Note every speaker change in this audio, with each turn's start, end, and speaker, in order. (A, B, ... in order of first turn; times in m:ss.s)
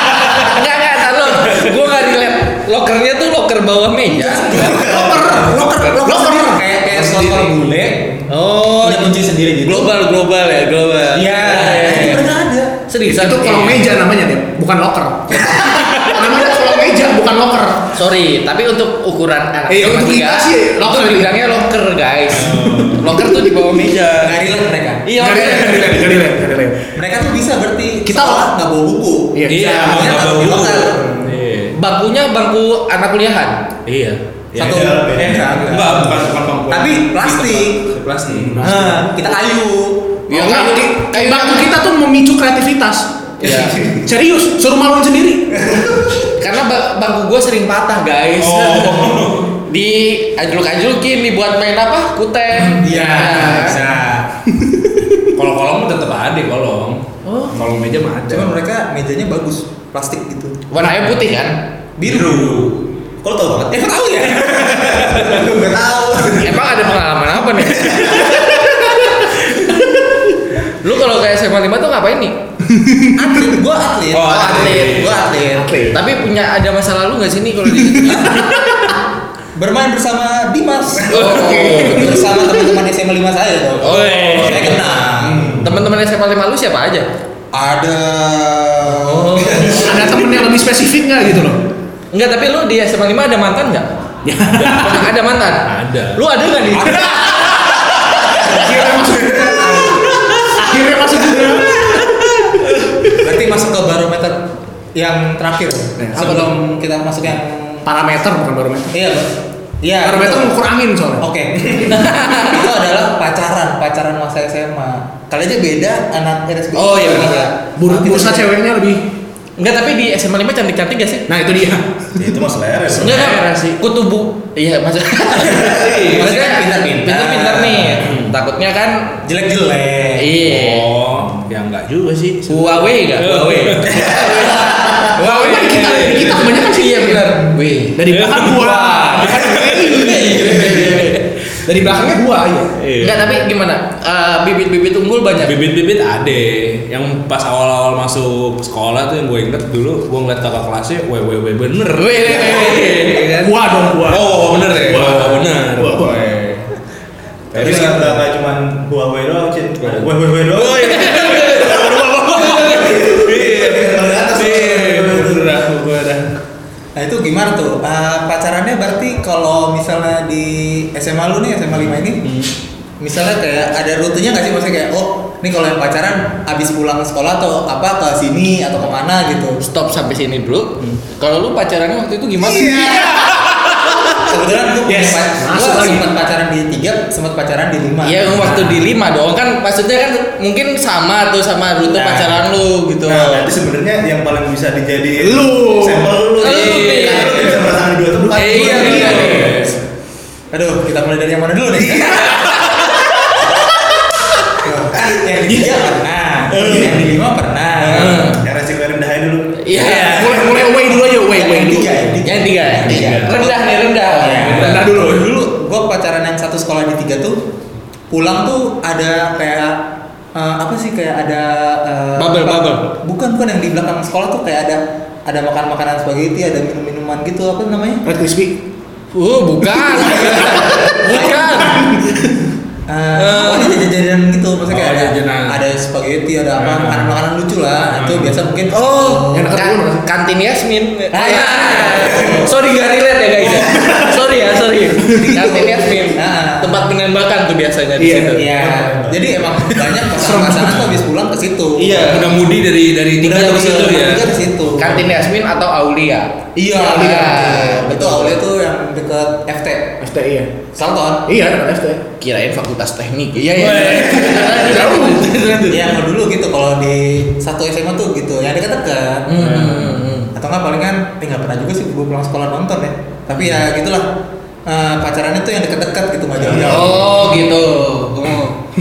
0:00.2-0:04.8 A
0:04.1-0:09.9 B
0:04.5-0:06.7 C
0:04.6-0:05.2 D
0:06.9-0:07.6 E
0:08.3-0:12.3 A
0:11.1-0:12.8 B
0:12.9-0:13.9 A
0:13.0-0:18.0 C
0:17.9-0:24.3 A
0:19.7-0:21.4 C
0:22.3-0:23.1 E
0:23.8-0:24.1 E
0:24.2-0:25.1 B
0:25.0-0:26.1 A
0:25.2-0:26.9 C
0:26.9-0:31.1 B
0:28.0-0:28.5 C
0:29.3-0:30.2 C
0:29.5-0:31.7 E
0:31.7-0:33.6 A
0:33.8-0:39.0 E
0:34.6-0:37.9 B
0:34.6-0:35.6 D
0:38.6-0:40.2 B
0:40.3-0:41.8 A
0:40.3-0:45.6 C
0:43.4-0:43.8 A
0:46.4-0:53.8 A
0:48.4-0:49.6 E
0:52.6-0:54.3 B
0:55.3-0:58.5 E
0:58.3-1:00.6 B
1:00.7-1:01.6 A
1:02.0-1:02.7 B
1:02.0-1:02.8 E
1:03.2-1:06.7 D
1:03.7-1:06.4 B
1:06.4-1:08.2 A
1:07.8-1:08.3 D
1:08.1-1:08.6 B
1:10.8-1:12.4 A
1:12.7-1:13.2 C
1:13.2-1:15.8 B
1:14.1-1:15.2 E
1:14.2-1:15.1 A
1:15.6-1:16.0 C
1:15.9-1:18.6 A
1:17.8-1:18.9 C
1:19.5-1:25.7 B
1:21.1-1:22.0 A
1:21.1-1:22.4 C
1:21.1-1:22.2 E
1:23.8-1:24.9 E
1:23.8-1:24.8 A
1:25.2-1:25.8 D
1:25.6-1:27.1 A
1:27.5-1:30.2 B
1:29.0-1:29.9 A
1:29.6-1:31.6 C
1:32.1-1:33.9 A
1:34.2-1:35.0 C
1:34.6-1:34.9 E
1:34.6-1:37.9 A
1:35.6-1:36.2 E
1:37.2-1:37.7 C
1:38.4-1:42.2 C
1:39.3-1:40.3 B
1:43.2-1:47.8 B
1:46.0-1:46.5 C
1:47.8-1:48.9 C
1:48.9-1:50.6 B
1:50.0-1:51.2 C
1:51.2-1:58.5 B
1:51.9-1:52.6 A
1:56.8-1:57.5 A
1:57.0-1:59.0 C
1:59.6-2:01.3 A
2:01.3-2:02.1 C
2:02.2-2:03.4 D
2:03.0-2:09.2 A
2:05.5-2:08.1 B
2:05.5-2:06.3 E
2:08.0-2:08.3 E
2:09.2-2:10.3 B
2:10.2-2:10.9 A
2:10.4-2:14.5 E
2:12.5-2:18.0 A
2:14.3-2:15.0 B
2:15.1-2:17.4 C
2:15.2-2:16.4 E
2:17.9-2:22.8 C
2:18.1-2:19.8 E
2:19.8-2:21.3 A
2:22.8-2:23.4 E
2:23.0-2:25.6 A
2:25.4-2:33.5 E
2:31.9-2:33.4 A
2:33.4-2:36.3 C
2:34.0-2:36.7 E
2:37.5-2:38.2 E
2:37.5-2:45.5 D
2:39.8-2:46.3 E
2:40.8-2:42.9 A
2:42.0-2:42.4 C
2:47.0-2:52.3 B
2:52.2-2:52.5 E
2:53.0-2:59.6 B
2:59.6-3:03.1 A
3:02.5-3:03.2 B
3:02.6-3:04.2 C
3:04.2-3:08.7 B
3:04.8-3:06.1 C
3:08.0-3:13.5 A
3:12.0-3:12.3 D
3:13.1-3:19.4 D
3:15.2-3:16.2 C
3:16.4-3:17.6 A
3:16.4-3:17.5 E
3:18.3-3:19.7 E
3:18.4-3:19.7 A
3:18.6-3:19.6 C
3:20.5-3:22.8 B
3:24.6-3:28.3 B
3:25.4-3:25.7 C
3:26.5-3:27.0 C
3:27.8-3:29.9 D
3:27.9-3:28.4 A
3:29.6-3:30.4 A
3:29.8-3:32.2 C
3:29.8-3:33.6 B
3:32.2-3:34.7 A
3:32.8-3:33.4 E
3:34.1-3:37.4 B
3:34.4-3:35.0 E
3:34.4-3:35.2 C
3:38.1-3:48.0 B
3:42.2-3:42.8 A
3:48.0-3:48.6 C
3:49.1-3:51.9 A
3:50.2-3:50.6 C
3:50.3-3:51.8 B
3:52.9-3:59.5 B
3:53.1-3:53.8 A
3:54.7-3:55.6 E
3:56.6-3:57.2 E
3:57.9-3:58.4 E
3:58.7-4:08.8 A
3:59.3-4:00.0 C
4:01.1-4:02.5 B
4:03.7-4:04.1 C
4:05.4-4:06.8 B
4:08.0-4:08.5 C
4:08.3-4:12.3 B
4:08.7-4:09.2 D
4:10.1-4:10.9 C
4:11.8-4:14.3 E
4:13.2-4:15.1 B
4:14.8-4:18.4 A
4:16.6-4:20.0 B
4:16.7-4:17.8 C
4:20.0-4:20.5 C
4:20.7-4:21.2 B
4:21.3-4:22.0 C
4:22.2-4:25.9 A
4:23.6-4:25.4 C
4:23.6-4:24.1 E
4:25.6-4:29.3 B
4:29.3-4:30.3 A
4:29.4-4:30.0 E
4:30.3-4:34.1 B
4:34.6-4:37.2 B
4:36.5-4:36.8 E
4:36.5-4:38.6 A